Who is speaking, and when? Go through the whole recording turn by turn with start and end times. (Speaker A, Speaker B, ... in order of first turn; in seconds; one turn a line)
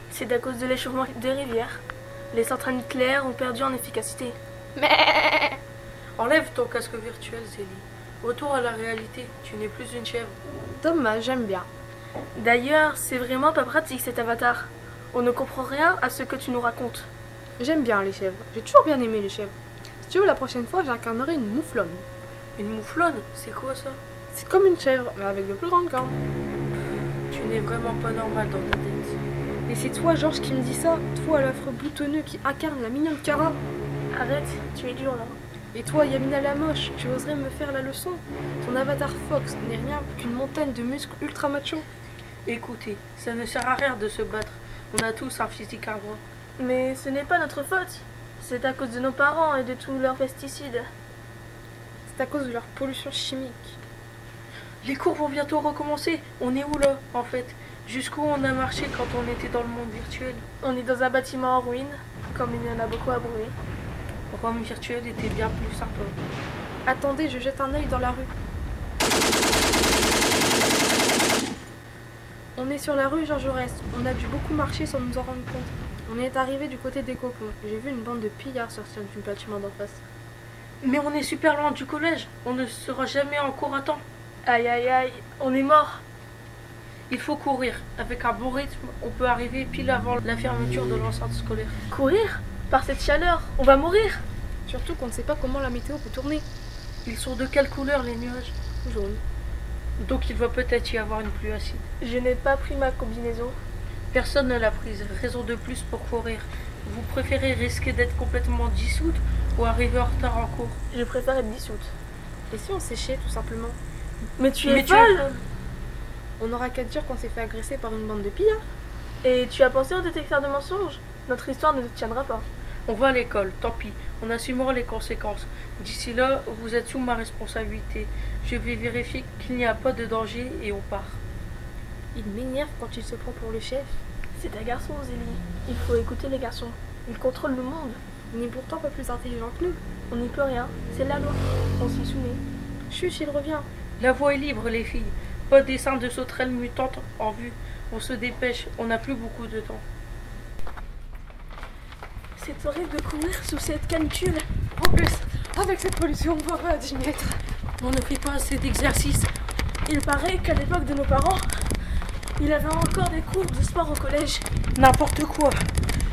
Speaker A: 0.1-4.3
Speaker B: 4.8-5.4
Speaker C: 6.2-10.3
Speaker B: 10.8-11.7
Speaker A: 12.3-17.1
Speaker B: 17.6-19.5
Speaker B: 20.0-22.0
Speaker C: 22.6-24.0
Speaker B: 24.3-26.2
Speaker C: 27.3-29.2
Speaker B: 29.7-33.6
Speaker A: 34.1-35.4
Speaker B: 35.7-41.8
Speaker C: 42.5-46.2
Speaker A: 46.6-50.9
Speaker B: 52.1-53.8
Speaker C: 54.8-60.4
Speaker A: 60.6-63.5
Speaker C: 64.3-66.2
Speaker B: 66.8-68.3
Speaker B: 72.5-80.0
Speaker C: 80.8-84.0
Speaker A: 84.4-86.0
Speaker C: 87.1-91.8
Speaker A: 91.9-94.2
Speaker B: 94.7-96.5
Speaker C: 97.0-98.5
Speaker B: 98.8-99.2
Speaker C: 100.0-101.8
Speaker A: 102.0-103.5
Speaker C: 104.1-110.8
Speaker A: 110.9-111.9
Speaker B: 112.5-113.8
Speaker A: 114.4-115.3
Speaker C: 114.6-115.4
Speaker B: 116.4-118.6
Speaker A: 119.2-122.5
Speaker C: 122.9-131.2
Speaker B: 132.1-134.0
Speaker A: 134.4-138.0
Speaker B: 138.3-139.8
Speaker A: 140.1-142.4
Speaker B: 142.9-143.7
Speaker C: 144.0-149.8
Speaker A: 152.4-154.4
Speaker B: 154.8-157.4
Speaker C: 157.8-159.3
Speaker A: 159.8-161.5
Speaker A: 162.4-164.4
Speaker C: 164.7-165.6